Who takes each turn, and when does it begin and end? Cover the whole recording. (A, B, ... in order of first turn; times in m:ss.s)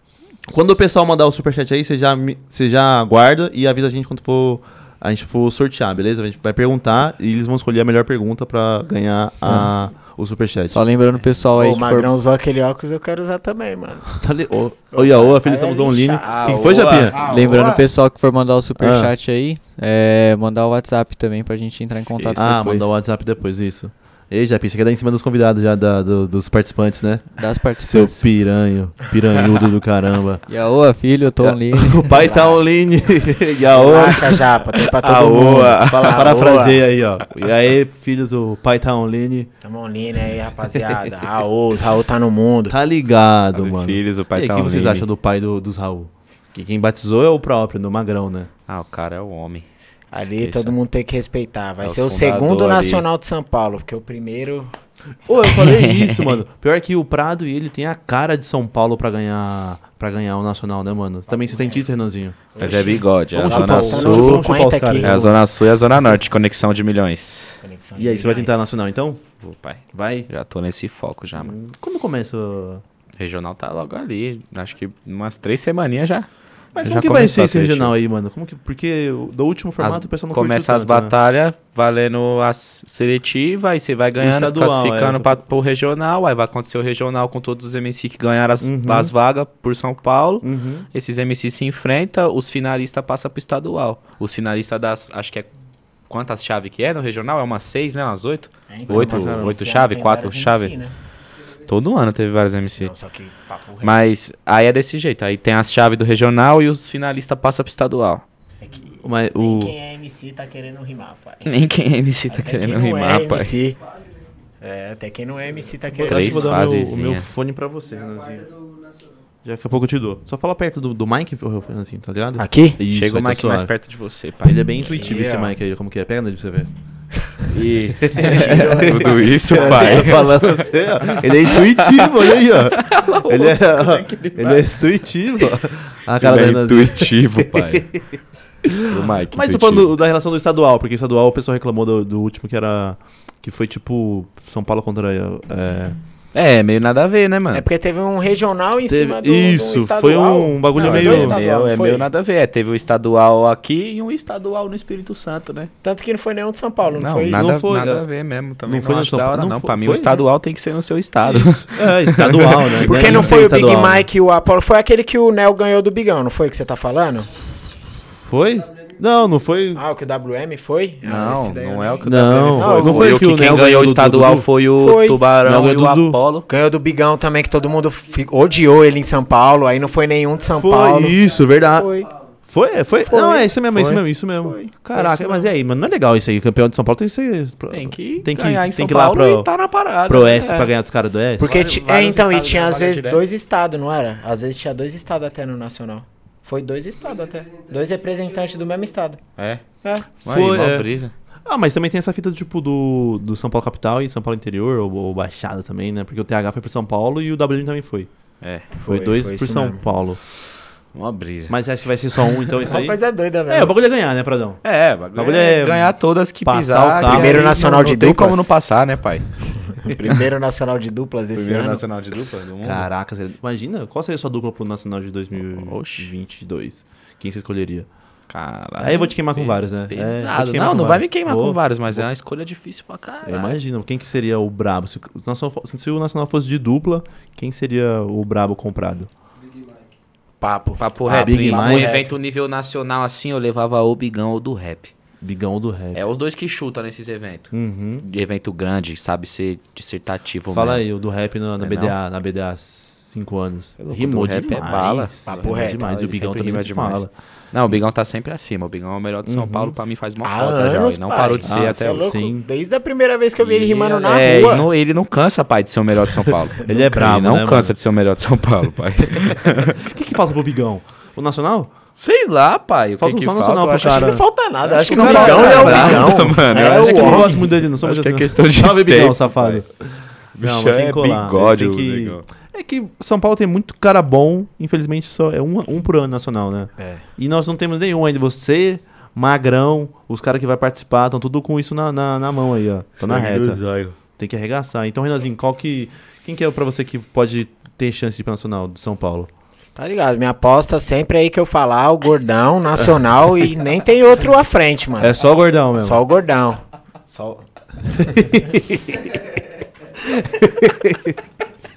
0:00.5-0:10.8 A
0:09.4-0:09.7 B
0:10.7-0:12.1 B
0:11.5-0:14.2 C
0:14.2-0:17.2 A
0:14.9-0:17.9 C
0:16.2-0:17.3 D
0:17.2-0:22.9 B
0:18.8-0:19.1 A
0:22.0-0:22.4 D
0:22.4-0:30.4 A
0:27.4-0:28.2 B
0:30.5-0:32.2 B
0:31.4-0:34.4 A
0:32.2-0:32.6 C
0:33.7-0:36.8 C
0:34.8-0:36.2 D
0:35.8-0:39.5 A
0:39.6-0:42.8 C
0:42.7-0:48.5 A
0:43.5-0:45.0 D
0:48.7-0:50.8 D
0:50.1-0:54.7 C
0:51.8-0:53.0 D
0:55.3-1:02.4 A
0:55.5-0:56.4 D
1:01.3-1:01.9 C
1:02.5-1:05.2 C
1:02.6-1:04.4 D
1:03.3-1:05.3 A
1:05.0-1:07.6 D
1:07.6-1:08.7 C
1:08.0-1:09.2 A
1:09.4-1:11.5 D
1:09.9-1:10.3 A
1:11.4-1:12.8 A
1:13.2-1:16.3 D
1:16.8-1:21.1 A
1:16.8-1:17.9 D
1:19.8-1:35.5 D
1:24.2-1:25.4 A
1:28.6-1:29.1 A
1:30.4-1:30.9 A
1:36.1-1:40.7 D
1:38.7-1:40.9 C
1:38.9-1:39.5 A
1:41.7-1:42.9 D
1:42.8-1:44.0 C
1:43.8-1:48.2 D
1:48.6-1:51.7 C
1:49.0-1:49.7 A
1:51.4-1:53.6 D
1:52.3-1:53.8 C
1:54.6-1:56.7 C
1:56.0-1:58.5 A
1:56.0-1:57.3 D
1:59.4-2:03.7 A
2:02.4-2:02.8 C
2:02.9-2:04.8 D
2:04.4-2:06.7 A
2:04.8-2:05.5 C
2:07.5-2:14.8 D
2:08.0-2:18.0 A
2:08.1-2:10.5 C
2:16.2-2:18.0 D
2:18.6-2:26.0 A
2:18.9-2:19.9 D
2:26.3-2:27.6 D
2:27.5-2:32.1 C
2:28.9-2:31.4 A
2:30.8-2:35.7 D
2:35.8-2:37.5 C
2:36.9-2:43.4 D
2:37.3-2:38.0 A
2:38.6-2:40.2 A
2:41.2-2:44.1 A
2:42.8-2:47.3 C
2:48.2-2:49.8 A
2:49.7-2:53.3 C
2:51.0-2:56.5 D
2:52.1-2:54.5 A
2:54.8-2:55.2 C
2:55.4-2:56.2 A
2:56.5-3:02.1 C
3:00.6-3:01.9 A
3:02.5-3:09.5 A
3:03.0-3:03.5 C
3:03.7-3:04.0 D
3:04.4-3:05.5 C
3:07.7-3:10.7 D
3:10.1-3:11.5 A
3:11.4-3:19.2 C
3:11.4-3:13.2 D
3:19.4-3:19.6 D
3:20.2-3:21.1 D
3:20.2-3:20.9 A
3:21.4-3:28.1 A
3:28.4-3:28.6 D
3:28.8-3:29.8 C
3:28.9-3:30.2 A
3:30.9-3:31.6 D
3:31.5-3:33.0 A
3:32.6-3:33.7 C
3:33.5-3:34.6 A
3:34.6-3:39.3 D
3:35.1-3:35.9 A
3:36.4-3:37.4 A
3:37.0-3:38.5 C
3:39.6-3:41.8 C
3:41.4-3:42.9 D
3:42.6-3:47.9 A
3:45.4-3:46.1 D
3:48.3-3:53.6 D
3:48.8-3:52.1 A
3:53.2-3:59.1 A
4:00.4-4:02.1 C
4:00.8-4:04.9 D
4:01.1-4:01.9 A
4:05.2-4:06.0 A
4:05.9-4:10.8 D
4:07.5-4:08.0 A
4:10.5-4:17.1 A
4:11.6-4:12.0 D
4:13.8-4:22.1 D
4:15.3-4:16.1 C
4:19.2-4:19.7 A
4:20.2-4:24.7 C
4:21.4-4:22.4 A
4:23.4-4:29.8 D
4:26.6-4:27.7 A
4:26.7-4:27.1 C
4:29.2-4:31.7 A
4:32.0-4:34.1 D
4:33.0-4:34.2 A
4:33.8-4:37.5 C
4:34.7-4:39.6 D
4:34.8-4:59.3 A
4:40.4-4:42.2 D
4:46.8-4:47.0 C
4:53.0-4:53.9 D
4:59.8-5:05.2 C
5:05.0-5:06.0 A
5:05.8-5:08.4 C
5:08.0-5:09.2 A
5:10.0-5:11.2 A